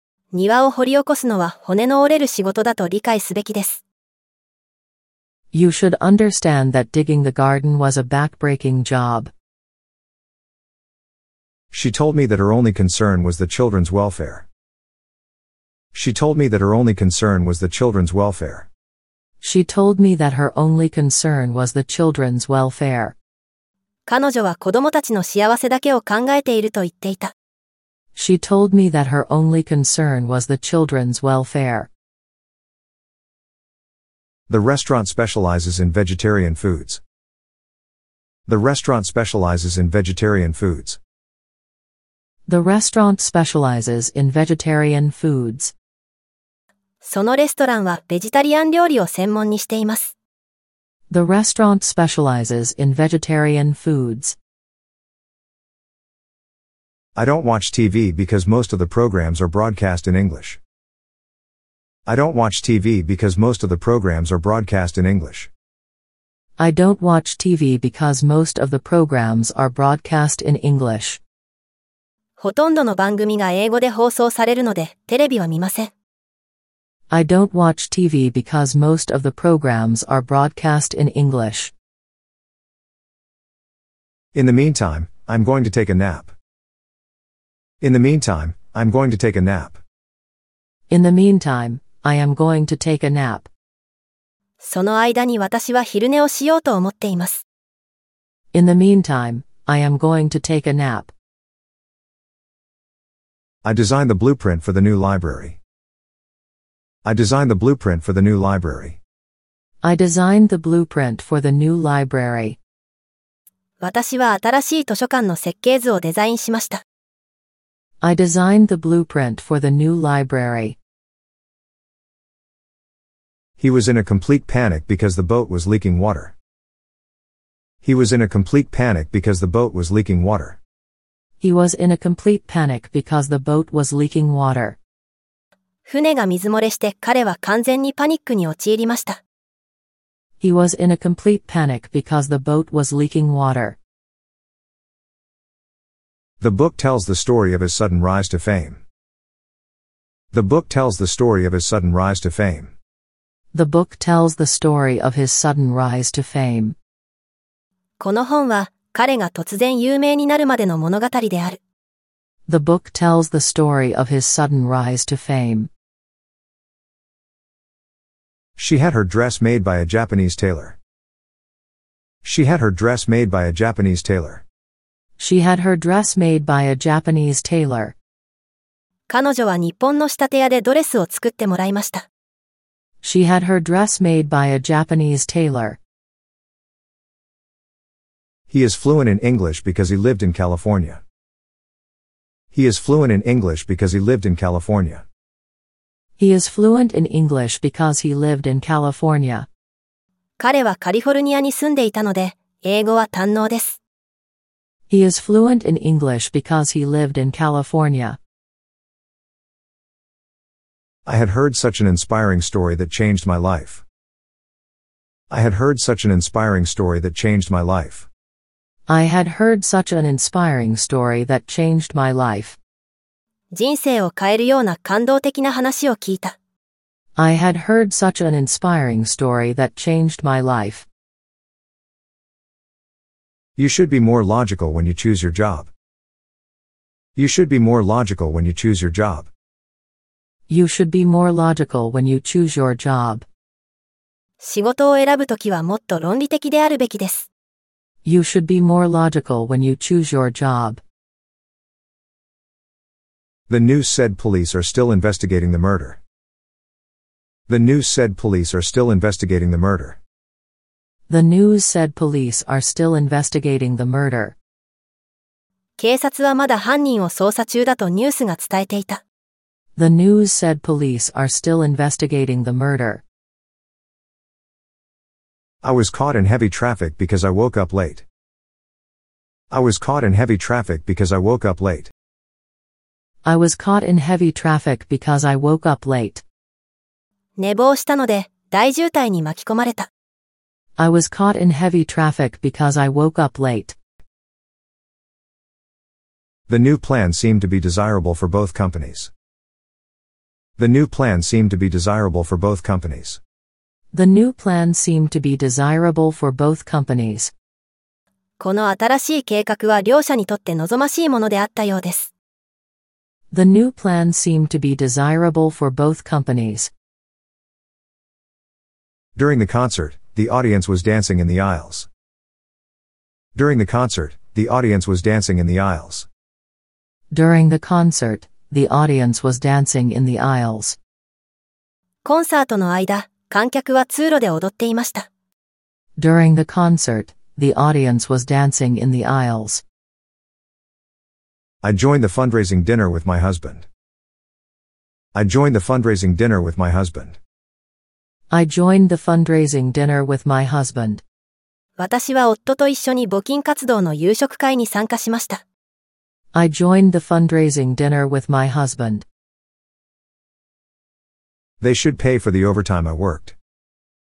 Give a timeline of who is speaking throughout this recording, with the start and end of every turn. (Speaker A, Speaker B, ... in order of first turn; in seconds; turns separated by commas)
Speaker A: 0.3-3.8, Speaker B: 5.5-9.3, Speaker C: 11.7-14.4, Speaker C: 15.9-18.7, Speaker B: 19.4-23.1, Speaker A: 24.1-27.3, Speaker B: 28.2-31.9, Speaker C: 34.5-37.0, Speaker C: 38.5-41.0, Speaker B: 42.5-45.7, Speaker A: 47.0-50.1, Speaker B: 51.1-54.4, Speaker C: 57.2-60.6, Speaker C: 62.1-65.5, Speaker B: 66.6-71.2, Speaker A: 72.4-75.9, Speaker B: 77.1-81.7, Speaker C: 84.3-86.3, Speaker C: 87.8-89.8, Speaker B: 90.9-93.5, Speaker A: 94.6-97.4, Speaker B: 98.5-101.1, Speaker C: 103.6-105.6, Speaker C: 107.0-109.0, Speaker B: 109.8-112.6, Speaker A: 113.8-116.8, Speaker B: 118.0-120.8, Speaker C: 123.6-126.3, Speaker C: 127.8-130.6, Speaker B: 131.4-134.8, Speaker A: 135.9-139.2, Speaker B: 140.4-143.8, Speaker C: 146.4-148.8, Speaker C: 150.3-152.7, Speaker B: 153.5-156.8, Speaker A: 158.0-161.6, Speaker B: 162.5-165.7, Speaker C: 168.6-170.8, Speaker C: 172.2-174.4, Speaker B: 175.2-177.9, Speaker A: 179.1-182.1, Speaker B: 183.0-185.8, Speaker C: 188.5-191.0, Speaker C: 192.5-195.0, Speaker B: 196.2-199.5, Speaker A: 200.4-203.8, Speaker B: 204.9-208.2, Speaker C: 211.1-213.8, Speaker C: 215.3-218.1, Speaker B: 218.9-222.6, Speaker A: 223.5-226.3, Speaker B: 227.2-230.9, Speaker C: 233.6-235.7, Speaker C: 237.2-239.3, Speaker B: 240.5-243.2, Speaker A: 244.4-247.3, Speaker B: 248.1-250.8, Speaker C: 253.5-256.0, Speaker C: 257.5-260.0, Speaker B: 261.1-264.4, Speaker A: 265.8-269.0, Speaker B: 269.8-273.0, Speaker C: 275.6-278.0, Speaker C: 279.5-281.9, Speaker B: 283.2-286.2, Speaker A: 287.4-289.9, Speaker B: 290.8-293.8, Speaker C: 296.5-299.1, Speaker C: 300.6-303.2, Speaker B: 303.9-307.3, Speaker A: 308.4-312.1, Speaker B: 313.3-316.7, Speaker C: 319.2-321.9, Speaker C: 323.4-326.1, Speaker B: 327.1-330.8, Speaker A: 332.1-335.1, Speaker B: 336.0-339.6, Speaker C: 341.6-343.7, Speaker C: 345.1-347.2, Speaker B: 348.3-351.0, Speaker A: 351.8-355.4, Speaker B: 356.3-359.1, Speaker C: 361.6-363.3